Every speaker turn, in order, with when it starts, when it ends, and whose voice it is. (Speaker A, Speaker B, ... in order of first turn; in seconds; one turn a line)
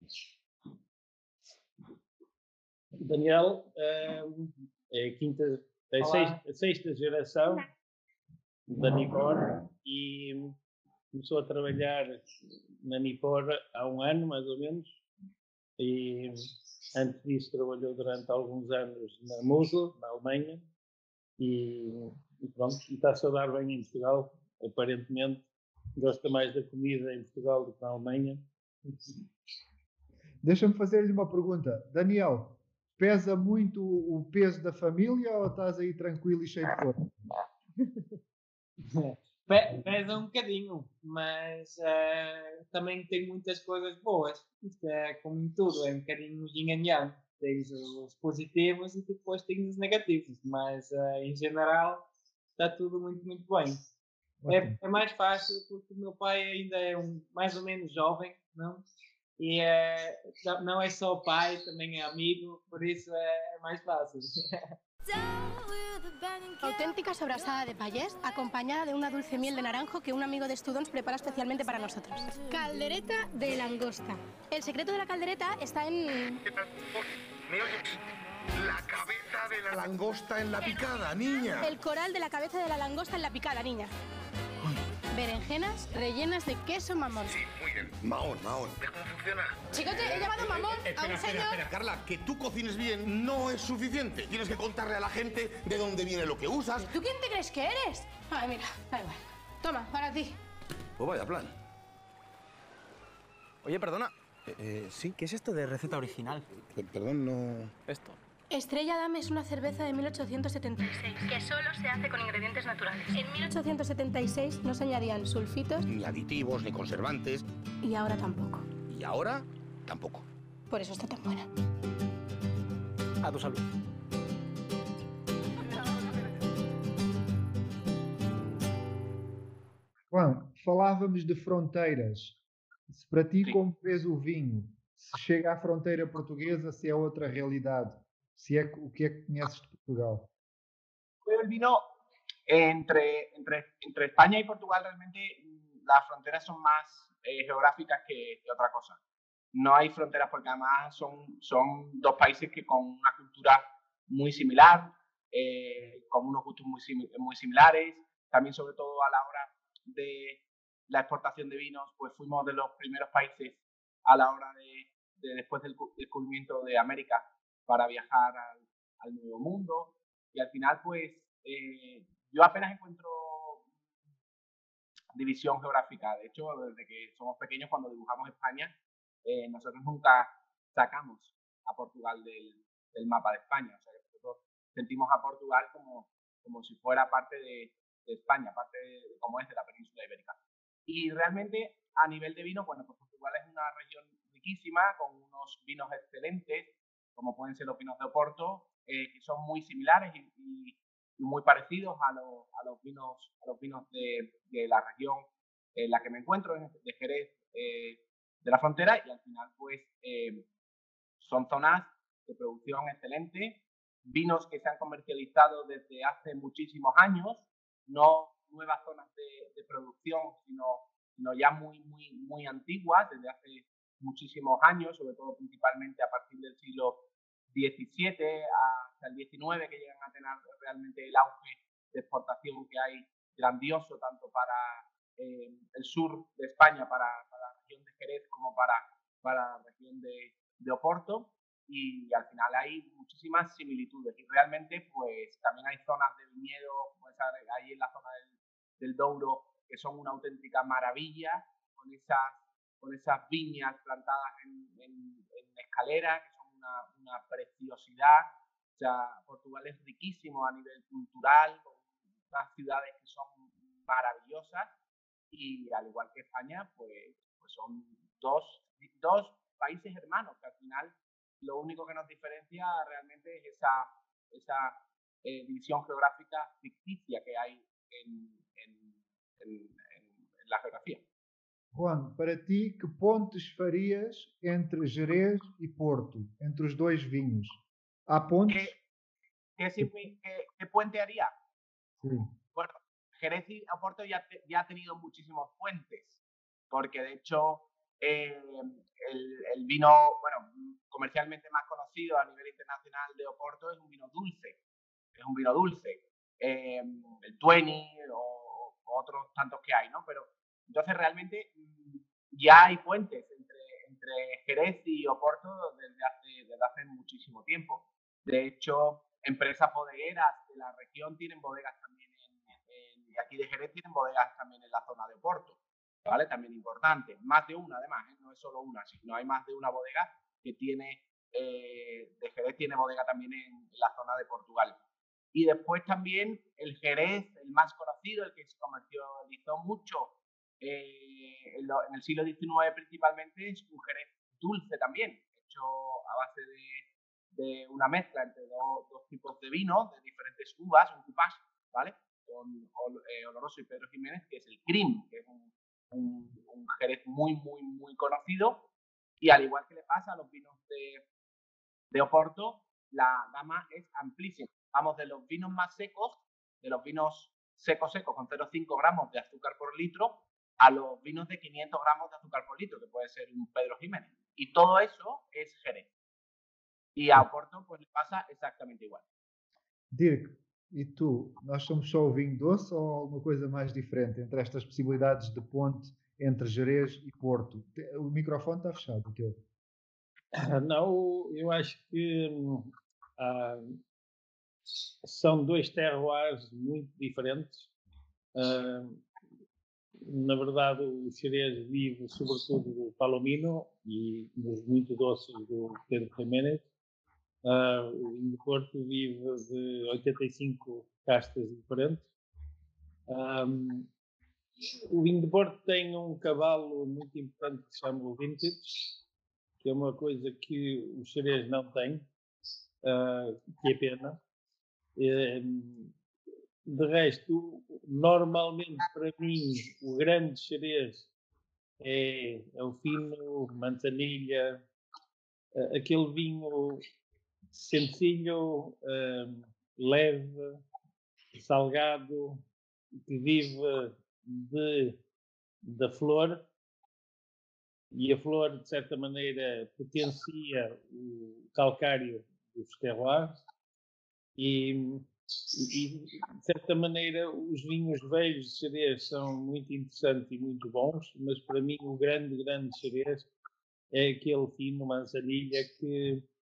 Speaker A: 3.0-7.7
Speaker B: 6.0-6.4
Speaker A: 8.7-10.6
Speaker A: 11.1-12.2
Speaker A: 12.8-14.9
Speaker A: 15.8-16.4
Speaker A: 16.9-20.7
Speaker A: 21.4-25.4
Speaker A: 26.0-28.4
Speaker C: 30.4-37.2
Speaker B: 38.9-53.8
Speaker C: 54.4-54.8
Speaker B: 54.5-58.9
Speaker B: 59.4-64.7
Speaker D: 66.6-76.4
Speaker E: 76.5-78.0
Speaker E: 78.6-81.7
Speaker D: 81.6-83.9
Speaker D: 85.1-87.4
Speaker E: 87.3-96.9
Speaker D: 89.7-91.6
Speaker D: 96.8-100.3
Speaker E: 101.0-101.5
Speaker F: 103.6-104.0
Speaker E: 103.9-105.1
Speaker F: 105.0-106.5
Speaker E: 106.7-107.7
Speaker F: 107.9-108.2
Speaker D: 108.5-115.8
Speaker E: 115.9-117.4
Speaker D: 117.8-118.7
Speaker E: 118.9-120.2
Speaker D: 120.7-121.5
Speaker F: 123.2-123.6
Speaker C: 130.1-132.4
Speaker C: 132.9-140.3
Speaker G: 141.2-141.8
Speaker G: 142.5-149.0
Speaker G: 149.5-173.6
Speaker G: 175.1-178.7
Speaker G: 179.2-190.4
Speaker G: 190.9-205.2
Speaker G: 205.8-210.4
Speaker G: 211.2-227.0
Speaker G: 227.5-261.8
Speaker G: 262.3-264.7
Speaker G: 265.3-281.0
Speaker C: 281.7-288.7
Speaker G: 288.5-288.8
Speaker G: 289.6-291.3
Speaker C: 292.0-292.3
Speaker G: 292.6-296.2
Speaker G: 296.7-304.6
Speaker G: 305.2-334.8
Speaker G: 335.3-358.6
Speaker G: 359.2-361.0
Speaker G: 361.9-375.9
Speaker G: 377.0-379.0
Speaker C: 379.9-389.4
Speaker A: 390.4-393.8
Speaker A: 395.0-397.7
Speaker A: 398.4-399.0
Speaker A: 400.1-406.6
Speaker A: 407.4-412.0
Speaker A: 413.1-413.9
Speaker A: 414.9-418.9
Speaker A: 419.6-422.1
Speaker A: 422.8-424.2
Speaker A: 425.0-425.9
Speaker A: 426.7-431.1
Speaker A: 431.8-434.6
Speaker A: 435.6-436.8
Speaker A: 437.5-440.6
Speaker A: 441.4-442.4
Speaker A: 443.1-444.9
Speaker A: 445.6-446.4
Speaker A: 447.9-453.4
Speaker A: 454.4-463.3
Speaker A: 463.9-466.2